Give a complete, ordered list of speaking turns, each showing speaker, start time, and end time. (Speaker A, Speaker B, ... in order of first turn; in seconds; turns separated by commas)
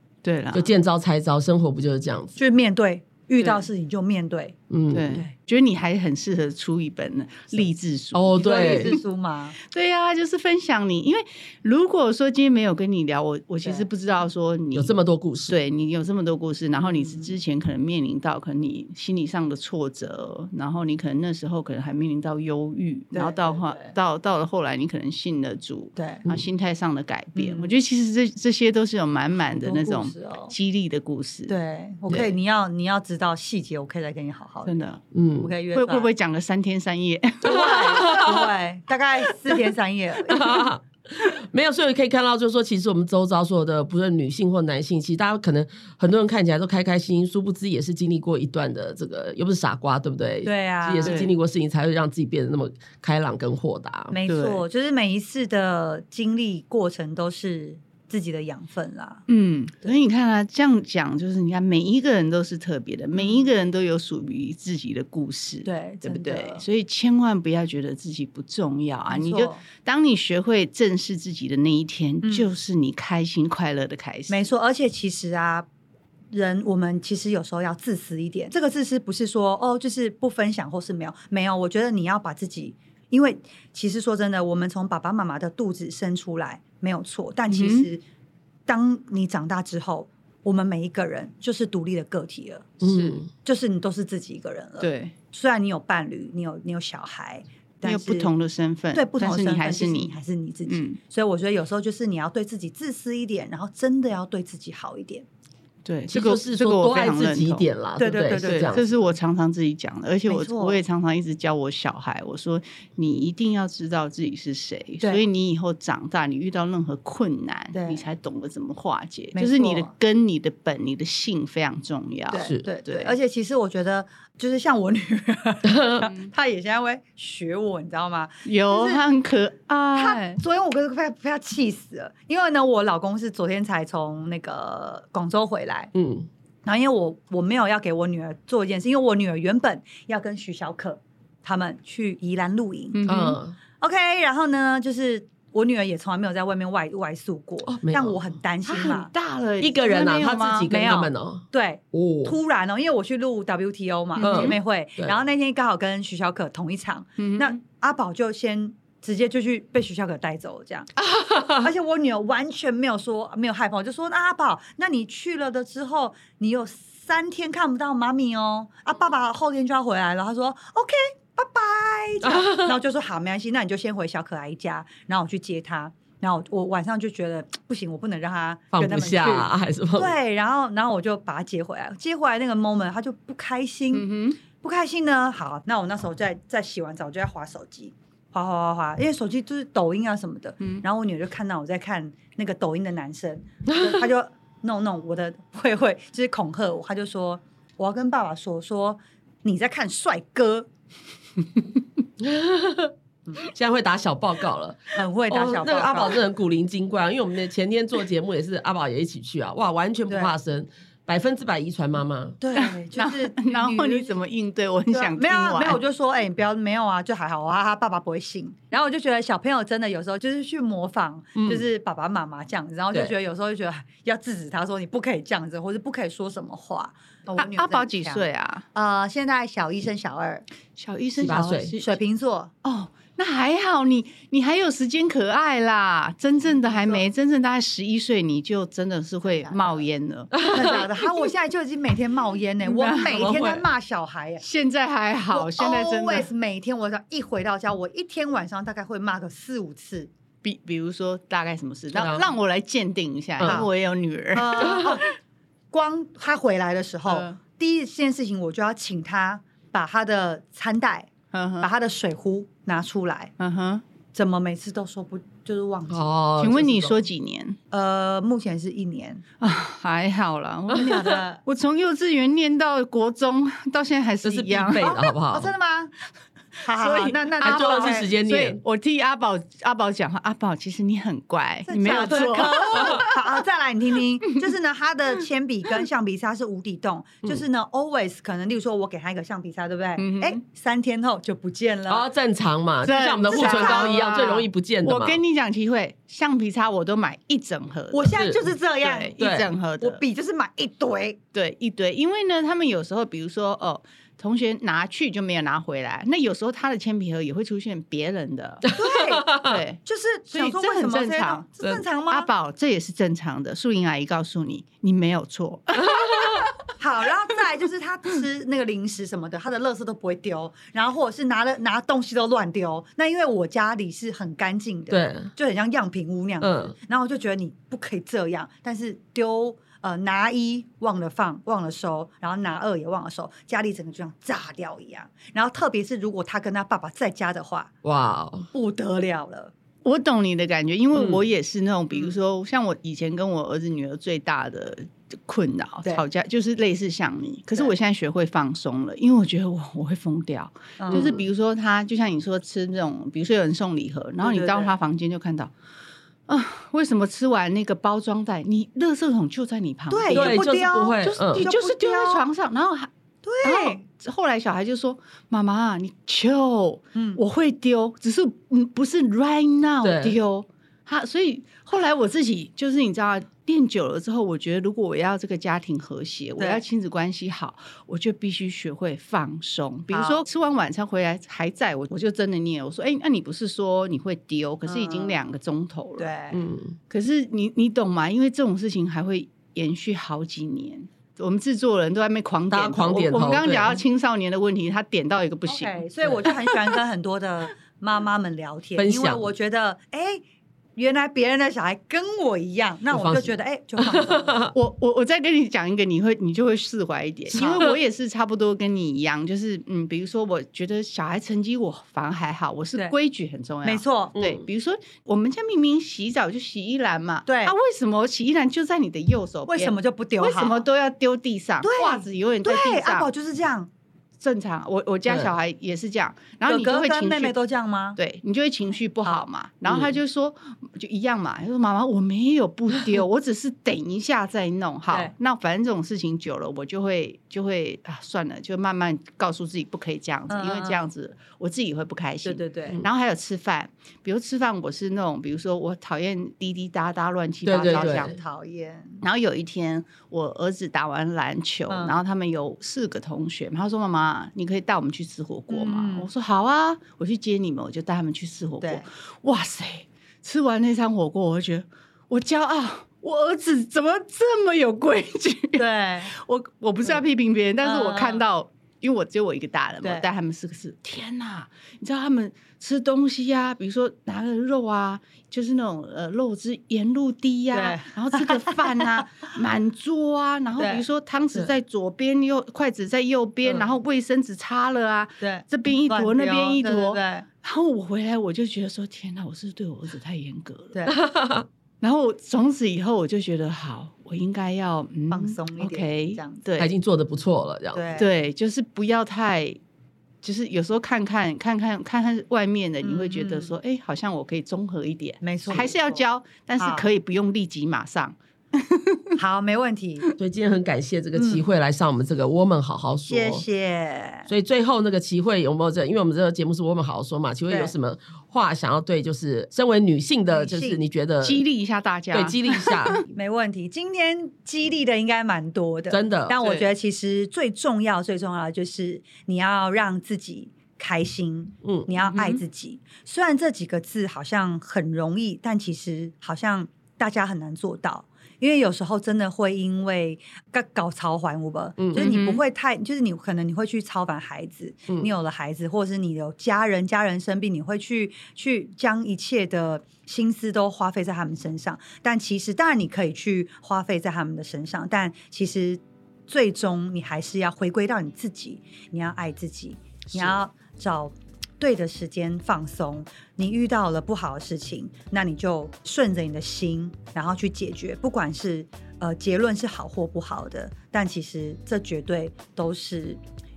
Speaker A: 0.2-0.7, Speaker B: 0.5-2.4, Speaker C: 2.4-4.5, Speaker A: 3.4-3.6, Speaker B: 4.7-5.2, Speaker A: 4.9-9.0, Speaker B: 8.1-9.0, Speaker C: 8.3-9.6, Speaker A: 9.6-14.9, Speaker B: 14.7-15.6, Speaker A: 15.5-31.5, Speaker C: 16.8-17.3, Speaker C: 23.1-23.9, Speaker C: 25.9-26.2, Speaker C: 27.4-27.7, Speaker C: 29.5-30.5, Speaker C: 31.5-34.7, Speaker A: 34.6-35.0, Speaker B: 35.1-35.5, Speaker C: 35.4-36.1, Speaker A: 35.7-38.3, Speaker C: 37.4-40.6, Speaker B: 37.5-38.5, Speaker B: 40.3-54.1, Speaker C: 50.4-51.2, Speaker A: 51.0-51.3, Speaker C: 54.1-59.2, Speaker A: 54.3-54.6, Speaker A: 59.3-74.4, Speaker C: 63.1-63.5, Speaker C: 65.6-66.6, Speaker C: 69.1-69.6, Speaker C: 72.2-72.5, Speaker C: 74.3-75.7, Speaker C: 76.3-88.0, Speaker A: 87.5-87.9, Speaker C: 88.7-92.8, Speaker B: 92.8-93.3, Speaker A: 92.8-93.2, Speaker C: 93.4-98.3, Speaker A: 94.8-95.1, Speaker A: 97.8-101.0, Speaker C: 98.9-105.2, Speaker A: 105.8-107.7, Speaker B: 106.1-108.9, Speaker C: 108.0-108.9, Speaker A: 108.4-123.1, Speaker C: 110.3-110.8, Speaker C: 117.7-118.0, Speaker C: 119.3-119.9, Speaker C: 122.3-129.0, Speaker B: 125.6-126.0, Speaker A: 128.4-130.4, Speaker C: 129.9-135.9, Speaker B: 135.9-136.3, Speaker C: 136.6-143.1, Speaker A: 142.9-143.4, Speaker B: 143.1-143.6, Speaker C: 143.8-149.1, Speaker B: 147.7-148.2, Speaker A: 148.6-150.7, Speaker B: 149.6-152.3, Speaker C: 150.7-160.9, Speaker A: 154.2-154.6, Speaker B: 154.2-155.1, Speaker A: 157.2-157.6, Speaker B: 161.0-161.7, Speaker C: 161.6-200.7, Speaker B: 172.2-172.8, Speaker B: 178.7-180.1, Speaker A: 183.9-184.4, Speaker B: 193.8-194.0, Speaker B: 202.2-212.4, Speaker C: 204.9-206.2, Speaker C: 210.1-210.3, Speaker C: 212.4-214.2, Speaker A: 212.5-215.8, Speaker C: 214.9-230.4, Speaker B: 221.4-221.7, Speaker A: 227.4-228.7, Speaker A: 230.8-232.0, Speaker B: 231.2-231.7, Speaker C: 231.7-232.5, Speaker A: 232.6-240.9, Speaker C: 236.4-237.1, Speaker C: 239.2-239.8, Speaker B: 240.4-240.8, Speaker C: 240.5-244.4, Speaker A: 242.6-243.6, Speaker A: 244.4-246.3, Speaker C: 245.3-250.1, Speaker A: 250.4-255.1, Speaker B: 251.9-252.3, Speaker B: 253.4-253.7, Speaker C: 253.4-253.7, Speaker C: 254.3-255.0, Speaker C: 255.7-261.1, Speaker A: 257.1-257.4, Speaker A: 261.3-261.7, Speaker C: 261.6-263.3, Speaker A: 263.4-263.8, Speaker C: 264.1-266.1, Speaker B: 265.9-267.0, Speaker A: 266.4-267.6, Speaker C: 267.7-269.2, Speaker A: 269.4-275.0, Speaker C: 270.7-271.4, Speaker B: 274.2-275.5, Speaker C: 274.6-275.9, Speaker C: 276.6-278.1, Speaker A: 276.8-283.4, Speaker B: 277.4-278.6, Speaker C: 281.6-292.1, Speaker B: 282.5-283.1, Speaker A: 290.0-290.4, Speaker B: 291.9-295.2, Speaker A: 292.8-298.2, Speaker C: 293.3-294.1, Speaker C: 297.9-299.1, Speaker B: 298.1-298.4, Speaker A: 298.8-300.0, Speaker B: 299.2-299.5, Speaker C: 299.8-301.2, Speaker A: 301.3-308.7, Speaker C: 308.7-312.3, Speaker B: 308.8-309.6, Speaker A: 309.4-311.5, Speaker A: 312.1-316.4, Speaker B: 315.9-316.4, Speaker C: 316.8-337.7, Speaker B: 324.9-325.3, Speaker B: 326.4-326.7, Speaker B: 337.8-338.5, Speaker C: 338.5-339.5, Speaker A: 339.8-355.5, Speaker B: 340.9-341.2, Speaker C: 350.8-351.2, Speaker B: 350.9-351.2, Speaker C: 354.2-354.7, Speaker A: 356.3-362.9, Speaker C: 359.9-362.2, Speaker B: 360.1-361.5, Speaker C: 363.2-363.8, Speaker A: 363.4-386.1, Speaker C: 366.9-367.2, Speaker B: 369.8-370.2, Speaker C: 376.4-376.6, Speaker C: 379.9-380.2, Speaker C: 384.6-385.2, Speaker C: 386.0-386.4, Speaker B: 386.3-386.8, Speaker A: 386.9-396.6, Speaker B: 392.5-393.8, Speaker C: 395.4-400.2, Speaker B: 398.8-399.2, Speaker C: 400.8-404.4, Speaker B: 402.9-404.5, Speaker A: 404.5-423.1, Speaker C: 407.3-407.7, Speaker C: 413.6-414.2, Speaker B: 414.2-414.4, Speaker C: 417.2-417.5, Speaker C: 419.5-420.6, Speaker C: 421.6-423.7, Speaker A: 424.2-427.4, Speaker B: 425.1-425.3, Speaker C: 426.4-428.0, Speaker A: 427.9-448.1, Speaker B: 429.7-429.9, Speaker C: 440.3-440.9, Speaker C: 442.2-442.8, Speaker B: 447.4-448.1, Speaker C: 447.6-449.0, Speaker A: 449.0-490.7, Speaker C: 451.7-452.0, Speaker C: 455.5-456.1, Speaker C: 458.6-458.9, Speaker C: 465.6-466.1, Speaker C: 467.6-468.2, Speaker C: 477.5-479.2, Speaker C: 480.6-480.8, Speaker C: 485.2-487.3, Speaker B: 490.9-491.5, Speaker A: 491.8-496.7, Speaker C: 495.1-496.5, Speaker B: 496.6-497.9, Speaker C: 497.7-498.1, Speaker A: 498.0-499.6, Speaker A: 500.2-509.1, Speaker C: 502.8-503.6, Speaker C: 505.2-506.0, Speaker C: 506.6-506.9, Speaker C: 509.2-510.1, Speaker B: 510.2-513.5, Speaker C: 511.1-511.4, Speaker C: 513.0-514.3, Speaker B: 514.3-521.4, Speaker C: 517.5-517.7, Speaker C: 520.3-520.8, Speaker A: 521.2-523.0, Speaker B: 522.1-523.0, Speaker C: 523.1-573.2, Speaker B: 525.9-526.4, Speaker A: 526.4-526.7, Speaker B: 531.6-531.9, Speaker A: 532.1-532.4, Speaker B: 541.8-542.1, Speaker A: 542.0-542.4, Speaker B: 560.1-560.4